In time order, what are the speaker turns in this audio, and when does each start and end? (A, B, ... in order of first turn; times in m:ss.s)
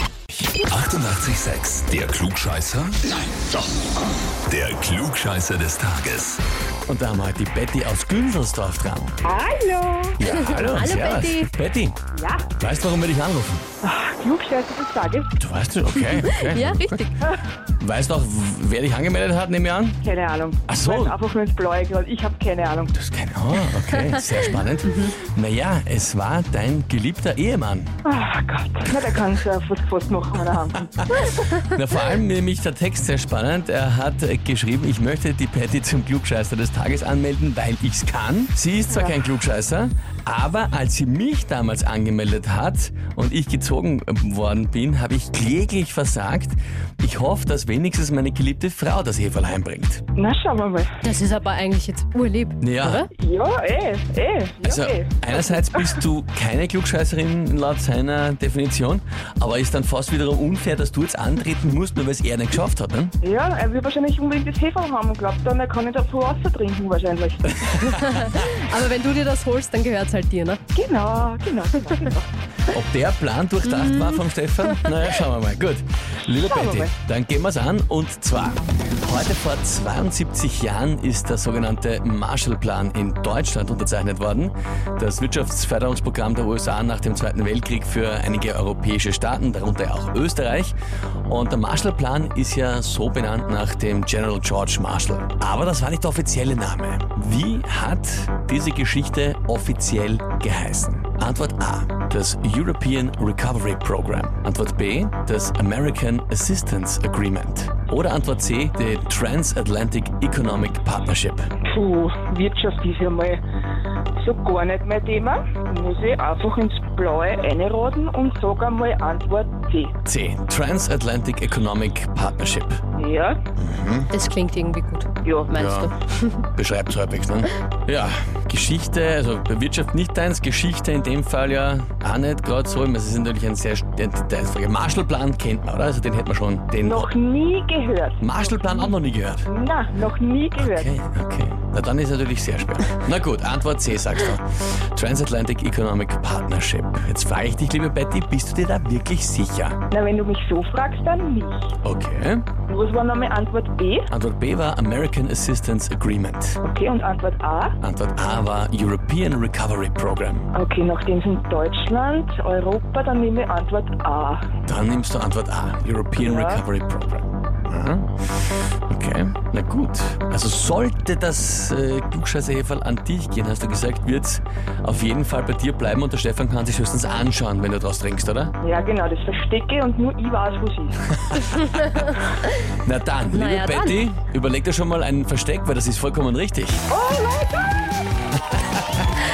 0:00.6-0:03.7 A
0:04.3-0:06.4 A
0:06.9-0:09.2 B
0:09.2-0:10.2 C
0:10.2-0:12.0 B
0:10.2-0:11.5 D
0:12.1-0:12.5 C
0:12.6-0:13.7 B
0:13.8-0:15.3 C
0:15.4-0:17.1 B
0:16.0-0:17.1 D
0:17.8-0:20.0 B
0:20.0-0:22.9 C
0:20.7-0:21.2 B
0:22.9-0:27.9 B
0:24.8-0:25.1 D
0:28.0-0:31.4 C
0:31.2-0:50.0 B
0:50.1-0:50.9 C
0:51.0-0:53.1 D
0:52.6-0:53.0 B
0:53.1-0:56.0 C
0:54.6-1:03.1 B
1:03.2-1:08.0 C
1:07.7-1:08.4 B
1:07.9-1:10.6 D
1:10.7-1:12.3 C
1:12.7-1:30.7 B
1:13.6-1:14.9 D
1:16.3-1:16.9 C
1:31.3-1:51.5 B
1:51.6-1:53.4 C
1:54.2-1:59.9 C
2:00.0-2:02.8 B
2:03.0-2:03.4 C
2:03.6-2:04.1 B
2:04.1-2:06.4 D
2:05.2-2:05.5 C
2:05.5-2:05.9 B
2:06.6-2:17.1 B
2:16.8-2:18.8 C
2:18.2-2:19.5 B
2:19.5-2:20.9 C
2:20.6-2:29.8 B
2:29.9-2:31.7 C
2:31.8-2:32.4 B
2:32.6-2:34.1 C
2:34.1-2:36.6 B
2:36.6-2:37.8 C
2:37.8-2:40.5 B
2:40.5-2:44.5 C
2:44.6-2:48.2 B
2:46.2-2:46.6 C
2:48.9-2:58.5 B
2:58.6-3:01.4 C
3:01.2-3:01.9 B
3:02.7-3:06.8 B
3:03.3-3:04.0 D
3:06.9-3:08.1 C
3:08.5-3:09.1 B